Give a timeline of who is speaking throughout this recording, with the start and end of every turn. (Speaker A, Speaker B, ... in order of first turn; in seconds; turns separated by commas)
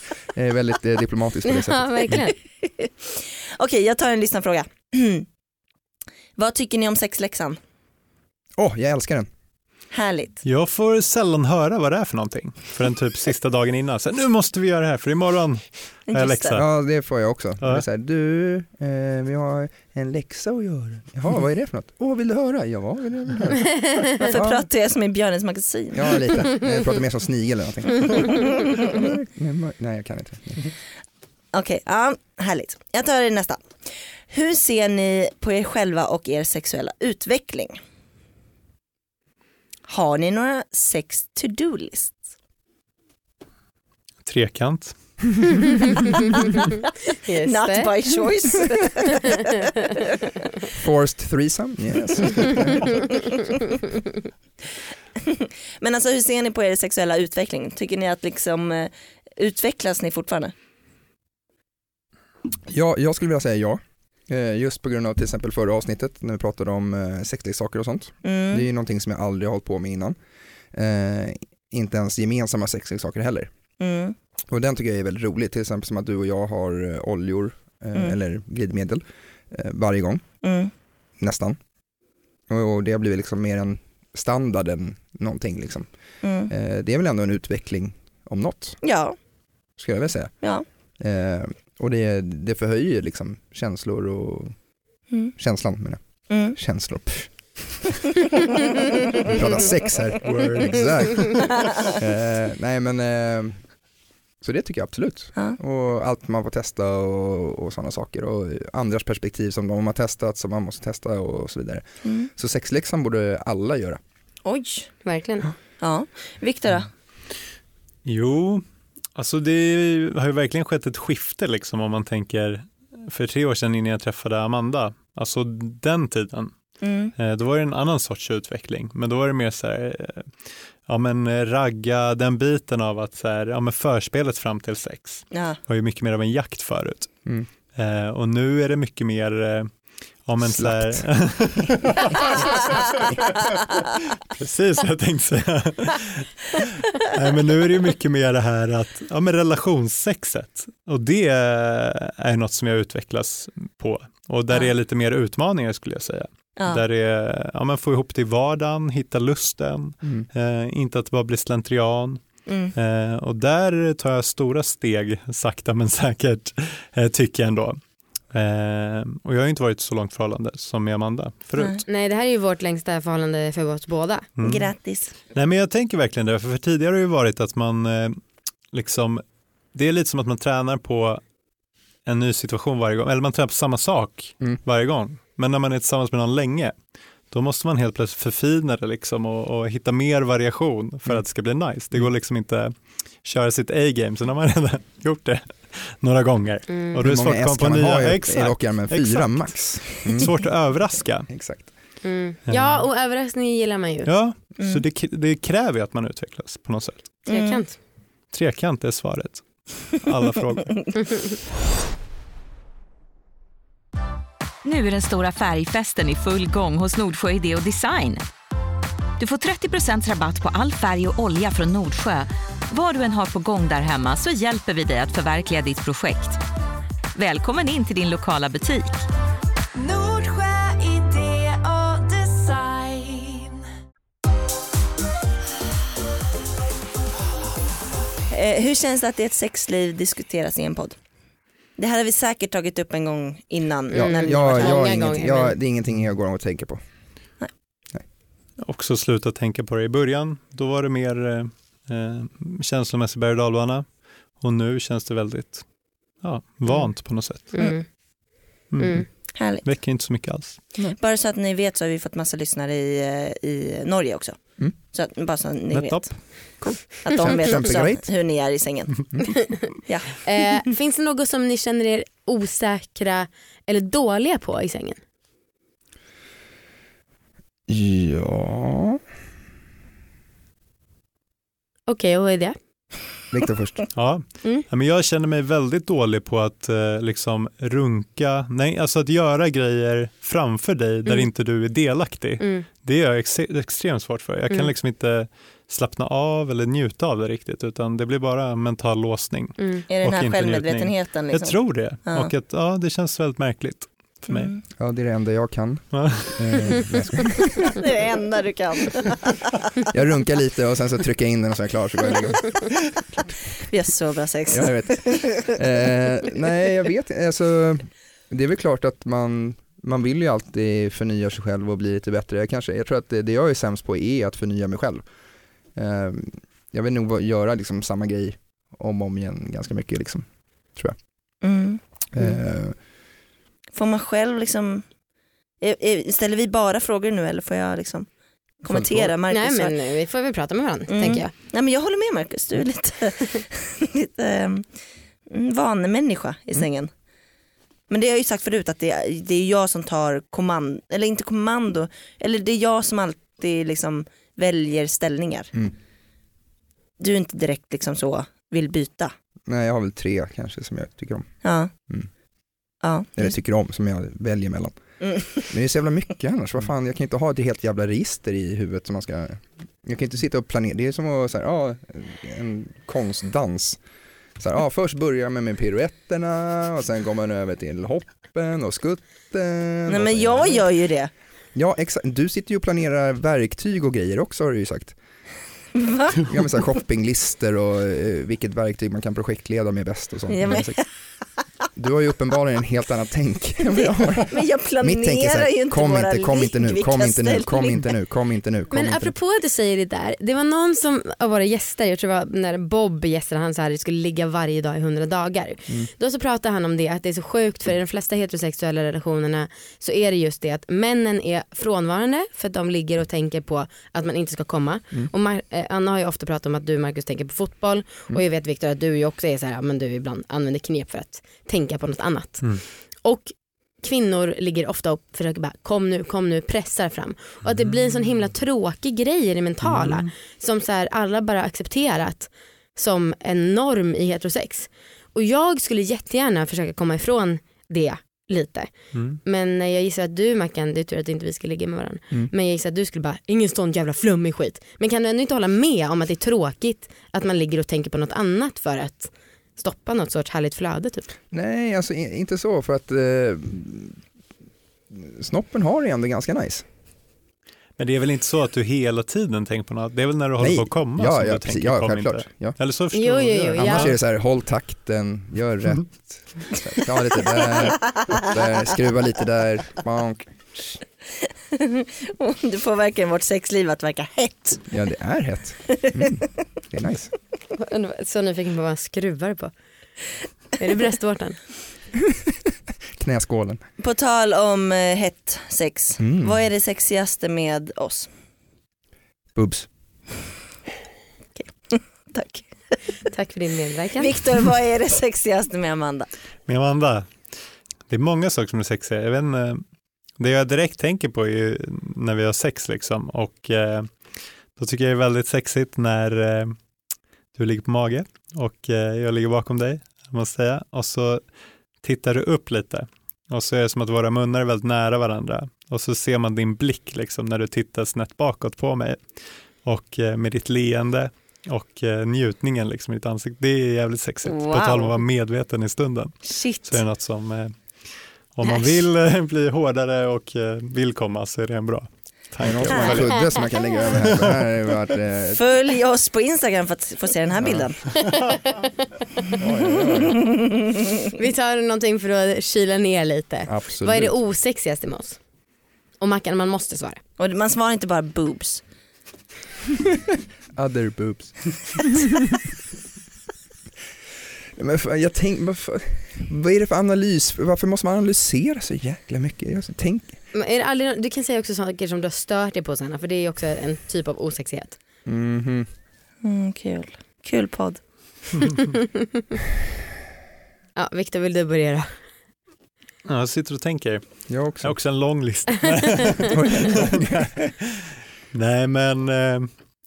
Speaker A: 0.3-2.2, Speaker B: 1.4-2.3, Speaker C: 2.6-5.2, Speaker C: 6.4-7.6, Speaker A: 8.6-9.3, Speaker C: 9.9-10.4, Speaker D: 10.4-16.6, Speaker C: 16.1-16.6, Speaker A: 16.5-24.6, Speaker C: 24.1-26.4, Speaker A: 25.9-30.7, Speaker C: 28.1-29.1, Speaker C: 31.5-33.7, Speaker C: 34.3-37.8, Speaker C: 39.9-42.2, Speaker D: 44.2-44.9, Speaker B: 47.2-47.9, Speaker C: 47.4-50.0, Speaker A: 50.7-52.9, Speaker C: 52.9-53.4, Speaker C: 55.2-60.5, Speaker A: 62.7-70.2, Speaker C: 68.2-68.7, Speaker A: 70.7-73.5, Speaker C: 73.8-74.2, Speaker A: 74.5-80.2, Speaker C: 80.4-80.7, Speaker A: 81.2-81.6, Speaker A: 82.5-85.9, Speaker C: 86.2-86.5, Speaker A: 86.5-88.8, Speaker C: 88.8-89.2, Speaker A: 89.8-90.3, Speaker A: 91.0-94.5, Speaker A: 95.3-96.0, Speaker C: 96.3-96.5, Speaker A: 96.5-98.0, Speaker A: 99.2-103.6, Speaker D: 100.2-101.5, Speaker A: 104.4-114.0, Speaker C: 114.4-114.9, Speaker B: 115.0-115.5, Speaker C: 115.8-116.9, Speaker D: 118.0-118.6, Speaker D: 119.1-126.5, Speaker C: 126.8-127.1, Speaker D: 127.2-130.3, Speaker D: 130.9-137.1, Speaker C: 135.3-135.6, Speaker D: 137.8-139.7, Speaker D: 140.2-143.6, Speaker A: 140.4-141.0, Speaker A: 141.8-142.3, Speaker D: 144.3-162.2, Speaker C: 156.6-156.8, Speaker C: 162.5-162.7, Speaker D: 162.7-167.8, Speaker D: 168.3-171.8, Speaker C: 171.6-171.8, Speaker B: 171.8-174.2, Speaker D: 174.4-174.7, Speaker C: 174.4-175.1, Speaker D: 175.3-178.2, Speaker D: 178.7-179.2, Speaker D: 179.7-181.2, Speaker D: 182.1-186.7, Speaker D: 187.3-192.7, Speaker D: 193.2-201.3, Speaker B: 196.7-197.0, Speaker A: 197.0-200.3, Speaker A: 201.3-201.7, Speaker B: 202.0-204.1, Speaker D: 202.5-202.8, Speaker D: 204.1-207.0, Speaker B: 207.3-207.8, Speaker C: 207.3-207.6, Speaker D: 208.3-211.0, Speaker E: 214.6-218.3, Speaker E: 219.2-226.4, Speaker E: 227.1-229.1, Speaker B: 229.9-233.1, Speaker C: 238.3-241.0, Speaker C: 241.8-244.8, Speaker B: 243.9-245.6, Speaker A: 243.9-246.8, Speaker D: 248.6-253.8, Speaker D: 254.4-255.6, Speaker D: 256.2-257.5, Speaker B: 257.5-257.8, Speaker D: 258.7-260.6, Speaker B: 258.8-259.0, Speaker C: 259.3-259.6, Speaker C: 260.9-264.4, Speaker C: 264.9-266.1, Speaker D: 265.7-266.9, Speaker C: 267.0-269.1, Speaker A: 267.1-268.1, Speaker C: 269.9-270.2, Speaker B: 270.2-275.0, Speaker A: 277.7-279.0, Speaker B: 281.9-282.6, Speaker A: 283.3-283.8, Speaker D: 283.9-304.5, Speaker B: 292.4-292.6, Speaker B: 299.6-299.8, Speaker C: 299.9-302.3, Speaker C: 304.3-304.6, Speaker A: 304.8-305.8, Speaker D: 305.9-306.9, Speaker A: 306.3-307.8, Speaker C: 307.7-309.7, Speaker A: 309.9-312.7, Speaker C: 313.7-315.5, Speaker A: 314.5-325.0, Speaker A: 325.7-330.2, Speaker C: 331.4-331.8, Speaker A: 332.1-332.7, Speaker C: 333.7-334.8, Speaker C: 335.6-338.1, Speaker C: 338.6-339.7, Speaker A: 338.7-339.1, Speaker B: 339.3-341.3, Speaker C: 340.9-344.6, Speaker C: 345.3-346.9, Speaker C: 347.9-355.5, Speaker C: 357.0-359.1, Speaker A: 359.5-361.3, Speaker C: 361.4-361.7, Speaker C: 362.8-363.3, Speaker A: 363.2-364.8, Speaker C: 365.0-365.4, Speaker A: 365.4-373.8, Speaker A: 374.4-380.6, Speaker C: 379.9-381.1, Speaker A: 381.5-384.9, Speaker C: 385.7-386.3, Speaker A: 386.2-390.8, Speaker C: 390.3-390.8, Speaker A: 391.8-399.1, Speaker C: 394.2-397.9, Speaker B: 398.7-438.7, Speaker D: 429.6-430.1, Speaker D: 438.9-439.2, Speaker B: 439.2-451.1, Speaker A: 451.3-454.0, Speaker A: 454.9-456.6, Speaker D: 457.8-463.9, Speaker A: 460.4-462.6, Speaker B: 462.9-463.9, Speaker A: 463.6-470.8, Speaker C: 467.6-468.1, Speaker C: 471.5-474.6, Speaker A: 474.7-477.1, Speaker C: 475.8-476.1, Speaker B: 477.5-479.5, Speaker B: 480.6-481.4, Speaker A: 482.0-482.3, Speaker A: 482.9-483.6, Speaker C: 483.8-488.1, Speaker A: 486.0-486.4, Speaker A: 489.3-489.7, Speaker C: 491.4-492.8, Speaker B: 493.1-494.1, Speaker C: 494.0-496.1, Speaker D: 496.5-497.1, Speaker D: 497.9-499.6, Speaker D: 500.2-503.9, Speaker D: 504.6-506.5, Speaker D: 507.3-511.2, Speaker D: 511.8-519.0, Speaker D: 519.6-527.5, Speaker C: 524.2-525.0, Speaker C: 526.2-526.8, Speaker D: 528.3-533.4, Speaker C: 528.4-528.8, Speaker A: 532.4-535.4, Speaker C: 532.7-533.0, Speaker D: 534.0-534.4, Speaker C: 535.3-538.0, Speaker A: 537.4-537.7, Speaker A: 539.4-540.2, Speaker C: 539.7-541.1, Speaker B: 541.2-545.2, Speaker A: 543.5-544.1, Speaker B: 546.0-547.0, Speaker C: 547.2-548.6, Speaker A: 550.5-552.1, Speaker A: 554.6-560.1, Speaker B: 560.3-564.8, Speaker A: 565.0-565.7, Speaker C: 566.2-567.8, Speaker D: 568.3-568.7, Speaker B: 568.8-569.1, Speaker B: 570.8-571.9, Speaker D: 573.0-574.0, Speaker A: 574.3-574.8, Speaker D: 574.6-579.5, Speaker A: 576.3-577.3